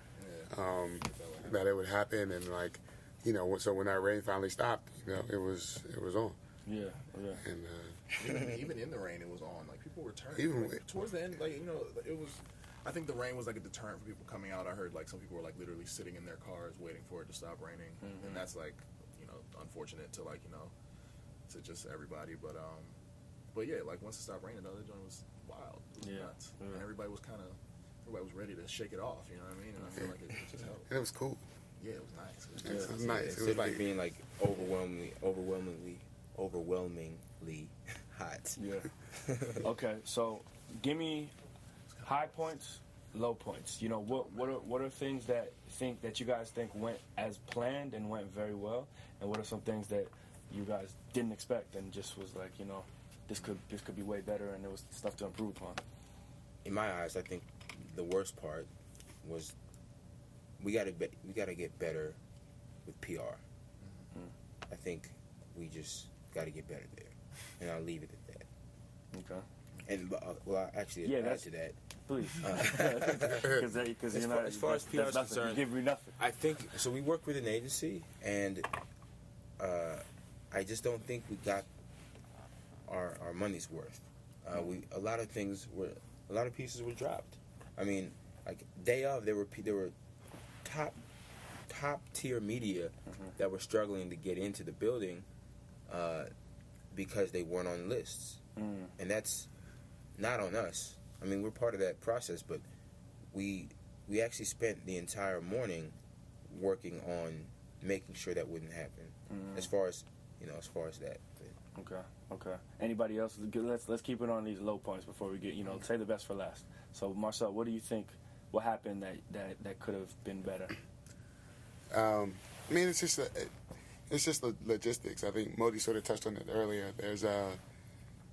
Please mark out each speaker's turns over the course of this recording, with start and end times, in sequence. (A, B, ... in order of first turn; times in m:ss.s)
0:00.2-0:01.7 A
0:00.5-0:06.4 B
0:06.6-0:07.4 C
0:07.4-0:08.0 B
0:08.1-0:20.7 A
0:10.3-0:10.8 B
0:18.0-0:18.4 C
0:21.5-0:23.0 A
0:23.5-0:30.9 A
0:26.0-0:26.8 C
0:30.9-0:31.4 B
0:31.8-0:33.4 A
0:32.6-0:33.9 B
0:32.6-0:32.9 C
0:32.9-0:38.6 D
0:38.6-0:38.9 C
0:39.1-0:39.6 D
0:39.6-0:41.3 C
0:41.9-0:42.5 A
0:42.0-0:55.8 C
0:56.6-0:58.7 D
0:59.2-0:59.5 D
1:00.6-1:02.2 D
1:02.8-1:03.4 D
1:03.8-1:04.1 A
1:04.7-1:08.5 D
1:09.1-1:09.4 C
1:09.8-1:11.8 D
1:11.0-1:11.5 C
1:12.0-1:16.2 C
1:12.4-1:13.6 D
1:13.3-1:13.7 B
1:14.1-1:15.7 D
1:16.2-1:18.7 D
1:19.6-1:21.7 D
1:22.9-1:29.9 D
1:30.6-1:31.0 D
1:31.7-1:35.2 D
1:33.1-1:33.3 C
1:35.9-1:36.3 D
1:36.9-1:38.4 D
1:38.6-1:38.9 C
1:39.0-1:39.5 D
1:40.2-1:42.6 D
1:43.3-1:45.9 D
1:46.5-1:51.6 D
1:49.3-1:49.7 C
1:51.7-2:00.7 C
2:01.9-2:03.5 B
2:04.1-2:07.6 B